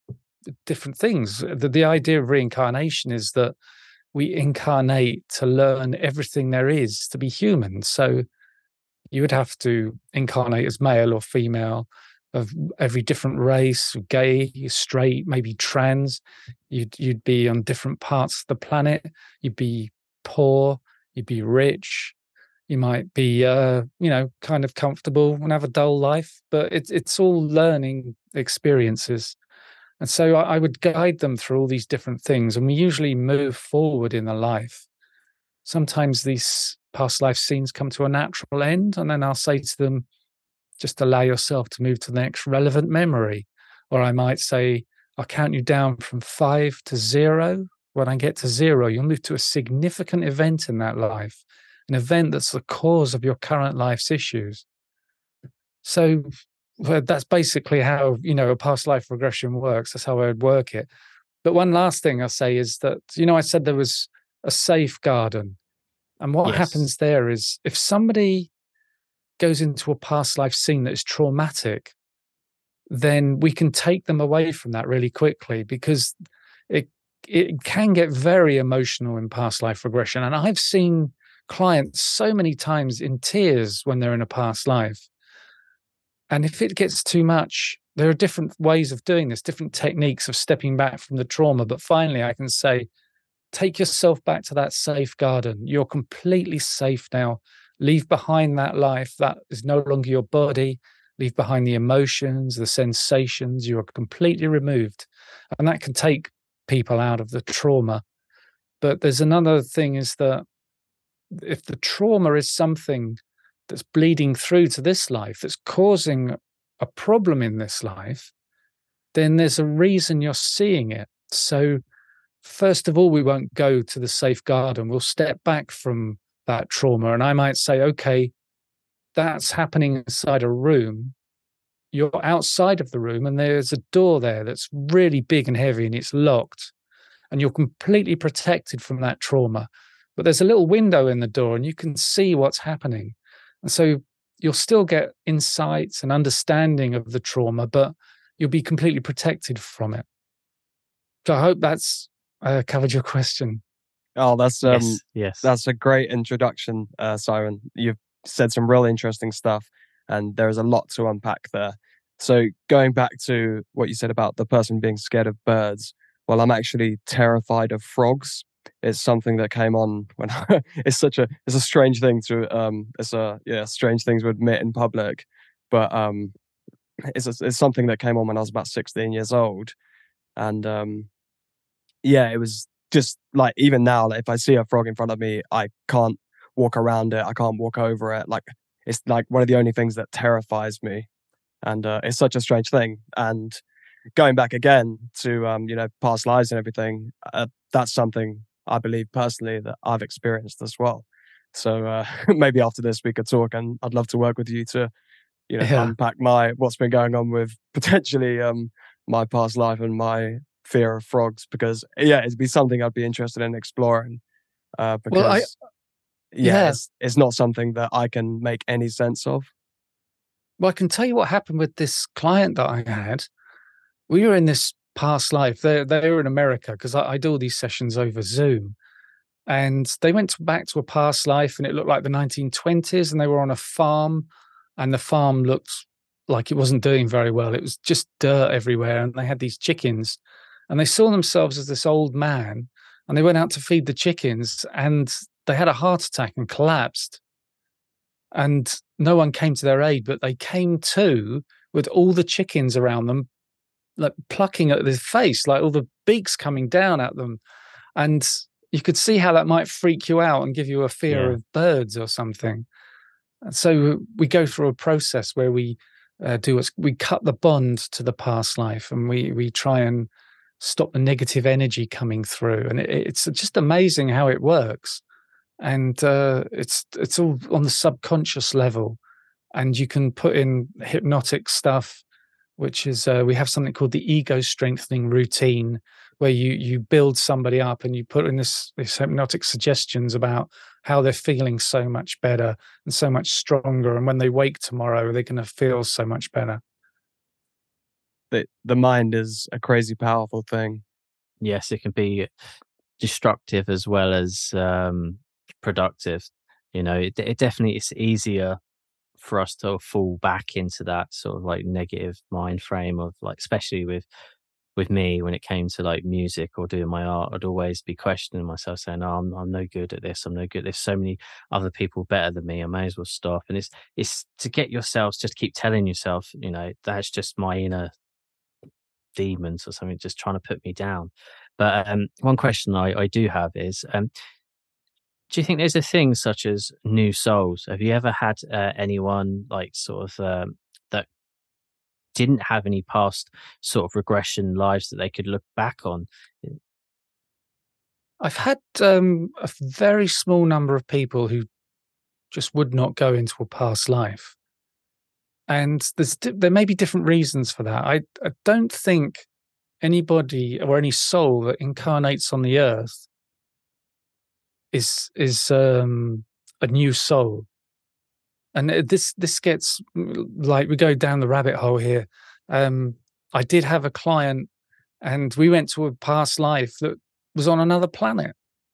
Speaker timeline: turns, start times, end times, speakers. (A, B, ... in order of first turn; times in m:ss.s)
0:00.7-0:03.5 A
0:04.1-0:08.3 A
0:09.1-0:22.2 A
0:22.7-0:29.4 A
0:30.0-0:34.8 A
0:35.7-0:40.1 A
0:40.8-0:54.6 A
0:55.8-1:00.9 A
1:01.4-1:05.6 A
1:06.2-1:08.5 A
1:06.4-1:06.8 B
1:09.4-1:11.9 A
1:12.9-1:16.2 A
1:16.7-1:25.1 A
1:26.3-1:32.9 A
1:33.5-1:48.0 A
1:48.8-1:50.4 A
1:51.3-1:58.3 A
1:59.1-2:01.8 A
2:02.4-2:08.3 A
2:09.2-2:11.1 A
2:11.9-2:16.7 A
2:17.3-2:30.1 A
2:31.2-2:33.6 A
2:34.2-2:56.3 C
2:34.7-2:35.5 B
2:57.0-2:59.8 C
3:00.4-3:01.1 C
3:02.0-3:11.1 C
3:11.6-3:13.6 C
3:14.2-3:24.9 C
3:25.5-3:34.2 C
3:25.6-3:26.0 A
3:34.8-3:35.5 C
3:35.1-3:35.5 A
3:36.3-3:39.5 C
3:36.4-3:36.8 A
3:40.6-3:43.3 A
3:44.1-3:48.8 A
3:49.5-3:54.3 A
3:54.8-4:00.2 A
4:00.7-4:07.2 A
4:08.4-4:13.3 A
4:14.0-4:17.4 A
4:18.0-4:22.7 A
4:21.1-4:21.4 B
4:23.4-4:30.1 A
4:30.6-4:35.0 A
4:35.6-4:39.0 A
4:39.6-4:42.0 A
4:42.6-4:56.6 A
4:58.3-5:00.8 C
5:01.4-5:02.3 B
5:03.0-5:08.6 B
5:09.2-5:14.0 B
5:14.8-5:27.9 B
5:29.2-5:34.1 B
5:35.3-5:41.1 B
5:42.2-5:46.6 B
5:48.2-5:51.5 A
5:52.3-5:54.4 A
5:55.5-5:59.3 A
5:59.8-6:03.1 A
6:04.7-6:07.5 A
6:08.6-6:14.5 A
6:15.0-6:18.3 A